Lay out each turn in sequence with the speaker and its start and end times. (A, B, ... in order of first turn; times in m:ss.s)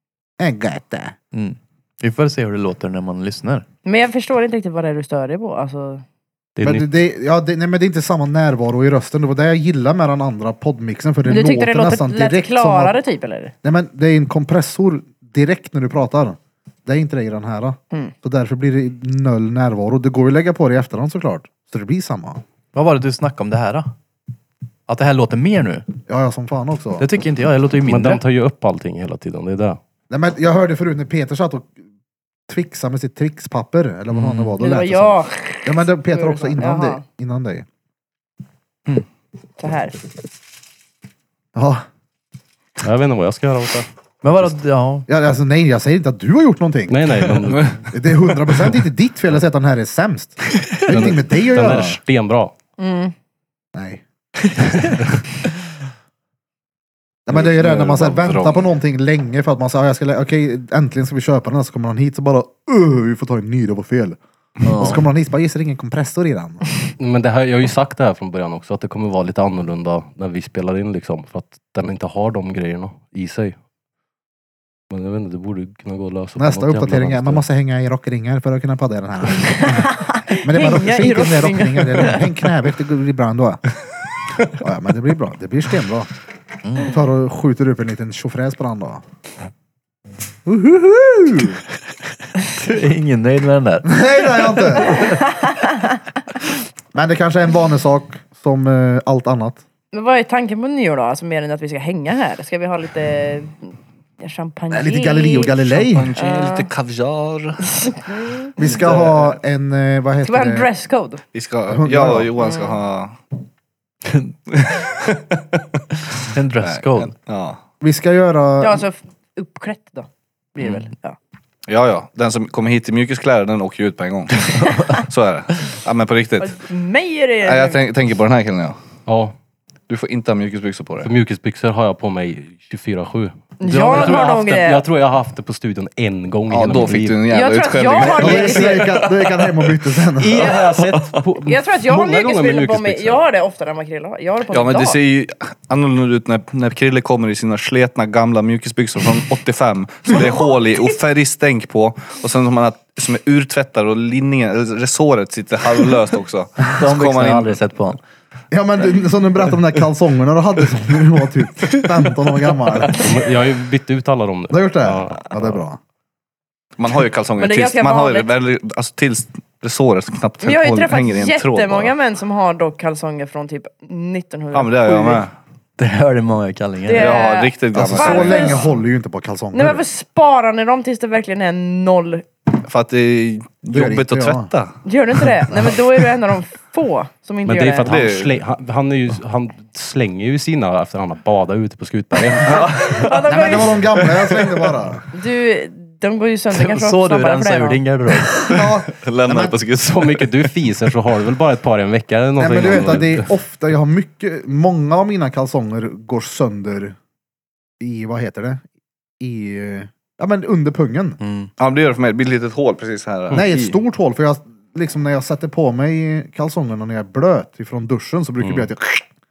0:00.4-0:01.2 A
0:01.3-0:03.7 B
0:03.9-0:06.0 C
0:06.6-0:06.9 D
0:06.6-0:13.0 A
0:11.2-0:13.5 C
0:13.6-0:22.4 A
0:22.7-0:23.9 B
0:24.9-0:25.9 B
0:26.1-0:27.1 A
0:27.0-0:28.2 B
0:27.8-0:29.8 D
0:30.1-0:31.7 A
0:32.5-0:37.7 A
0:34.1-0:34.6 B
0:34.6-0:37.0 C
0:39.6-0:40.0 C
0:41.6-0:41.8 A
0:42.8-0:43.9 D
0:44.2-0:45.1 B
0:45.1-0:47.0 A
0:46.9-0:47.8 D
0:47.5-0:47.8 E
0:47.9-0:52.0 A
0:50.9-0:52.5 D
0:52.8-0:53.1 C
0:53.8-0:54.0 A
0:57.3-1:04.2 A
0:57.3-0:58.7 E
1:04.6-1:05.0 B
1:04.7-1:06.6 A
1:07.0-1:13.6 D
1:14.9-1:17.4 D
1:16.4-1:23.6 A
1:19.4-1:22.2 C
1:24.5-1:26.1 A
1:26.6-1:26.9 B
1:26.8-1:29.0 A
1:30.5-1:31.6 A
1:32.5-1:35.1 B
1:33.8-1:35.1 A
1:35.0-1:35.7 C
1:37.0-1:39.6 A
1:39.9-1:45.6 C
1:44.7-1:46.1 A
1:45.6-1:47.7 E
1:46.2-1:46.7 C
1:47.6-1:48.5 C
1:48.6-1:50.7 A
1:48.6-1:49.4 E
1:50.2-1:51.2 C
1:51.3-1:53.2 E
1:51.7-1:52.3 A
1:52.4-1:52.8 C
1:54.5-1:57.6 E
1:56.3-1:57.1 B
1:57.8-1:58.8 A
1:58.6-2:01.2 C
2:01.7-2:06.6 E
2:06.4-2:07.8 C
2:07.4-2:08.8 E
2:09.1-2:09.4 D
2:09.9-2:11.1 E
2:11.0-2:17.3 D
2:13.6-2:14.9 C
2:13.6-2:14.4 B
2:16.5-2:19.6 E
2:17.2-2:19.0 C
2:18.2-2:20.5 A
2:20.2-2:23.2 D
2:20.4-2:21.2 E
2:21.4-2:25.0 C
2:24.5-2:37.6 E
2:36.7-2:38.0 B
2:38.5-2:43.0 A
2:43.0-2:45.6 D
2:44.5-2:45.8 A
2:46.8-2:51.9 E
2:47.4-2:48.3 C
2:50.4-2:55.2 C
2:54.5-2:55.3 E
2:55.8-2:57.3 B
2:56.8-2:58.6 C
2:56.9-2:58.7 E
2:57.7-2:59.8 A
2:59.5-3:02.3 C
3:02.6-3:04.8 E
3:03.7-3:04.5 A
3:04.8-3:07.9 C
3:05.4-3:05.8 E
3:07.4-3:13.0 D
3:07.8-3:08.4 E
3:12.4-3:13.2 E
3:12.6-3:13.8 C
3:13.3-3:15.1 A
3:13.8-3:14.7 E
3:15.1-3:17.8 C
3:16.5-3:18.3 B
3:18.3-3:20.6 E
3:18.4-3:19.6 A
3:19.8-3:23.3 D
3:22.4-3:27.0 A
3:27.8-3:28.6 A
3:29.2-3:31.2 A
3:31.2-3:31.5 B
3:31.6-3:33.8 E
3:33.3-3:39.0 A
3:38.4-3:38.7 D